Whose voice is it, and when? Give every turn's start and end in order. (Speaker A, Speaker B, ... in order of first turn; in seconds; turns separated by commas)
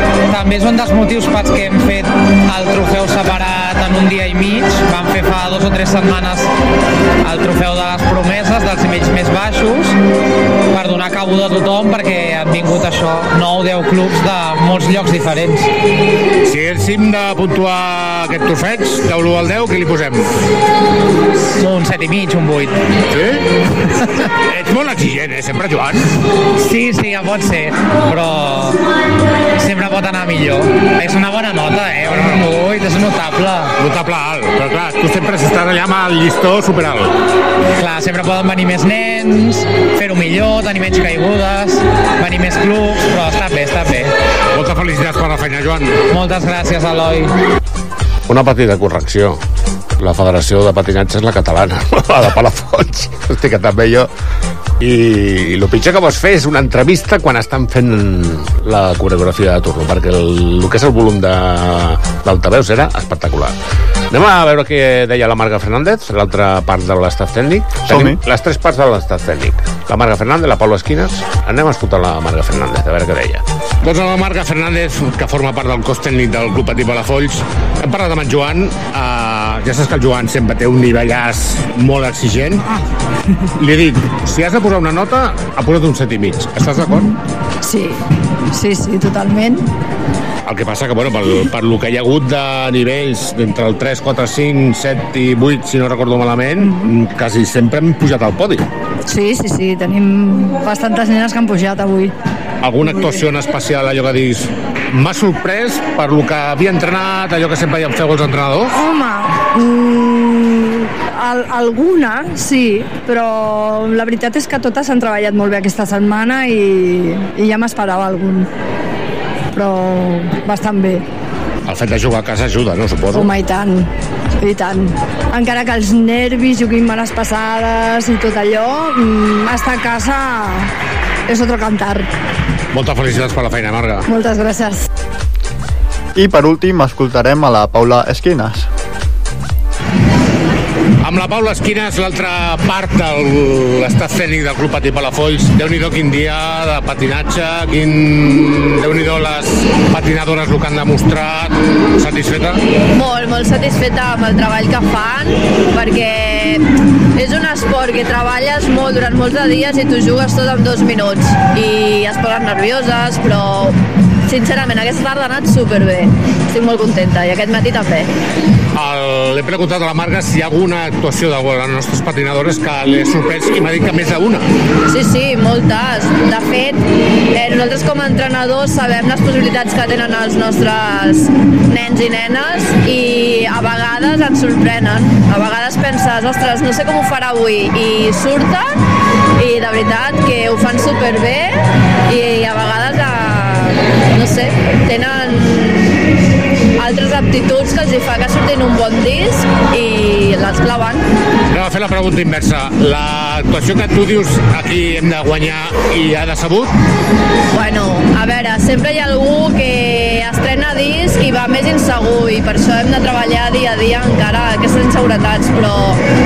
Speaker A: 0.3-6.5, Speaker A: 7.2-10.0, Speaker A: 10.7-15.7, Speaker B: 16.4-20.3, Speaker A: 21.6-22.8, Speaker B: 23.1-23.4, Speaker B: 24.4-26.1, Speaker A: 26.6-28.8, Speaker A: 29.6-33.8, Speaker B: 33.8-37.1, Speaker A: 37.8-44.1, Speaker B: 44.5-46.0, Speaker A: 46.1-47.3, Speaker B: 48.3-49.4, Speaker B: 50.0-54.1, Speaker B: 54.8-63.5, Speaker B: 64.1-82.7, Speaker C: 67.9-68.2, Speaker B: 83.6-87.1, Speaker D: 87.6-88.0, Speaker D: 88.5-89.6, Speaker B: 90.5-98.7, Speaker D: 99.1-102.1, Speaker B: 102.6-108.8, Speaker D: 108.7-118.5, Speaker D: 119.5-121.0, Speaker B: 121.7-123.3, Speaker D: 123.1-123.9, Speaker D: 124.4-130.7, Speaker D: 131.3-132.1, Speaker B: 132.7-134.1, Speaker D: 134.1-134.8, Speaker C: 136.2-138.7, Speaker B: 141.0-152.6, Speaker E: 152.9-168.1, Speaker B: 168.7-174.4, Speaker E: 174.9-176.8, Speaker E: 177.3-188.6, Speaker E: 189.4-196.0, Speaker E: 196.8-201.0, Speaker B: 201.5-206.7, Speaker E: 207.5-216.0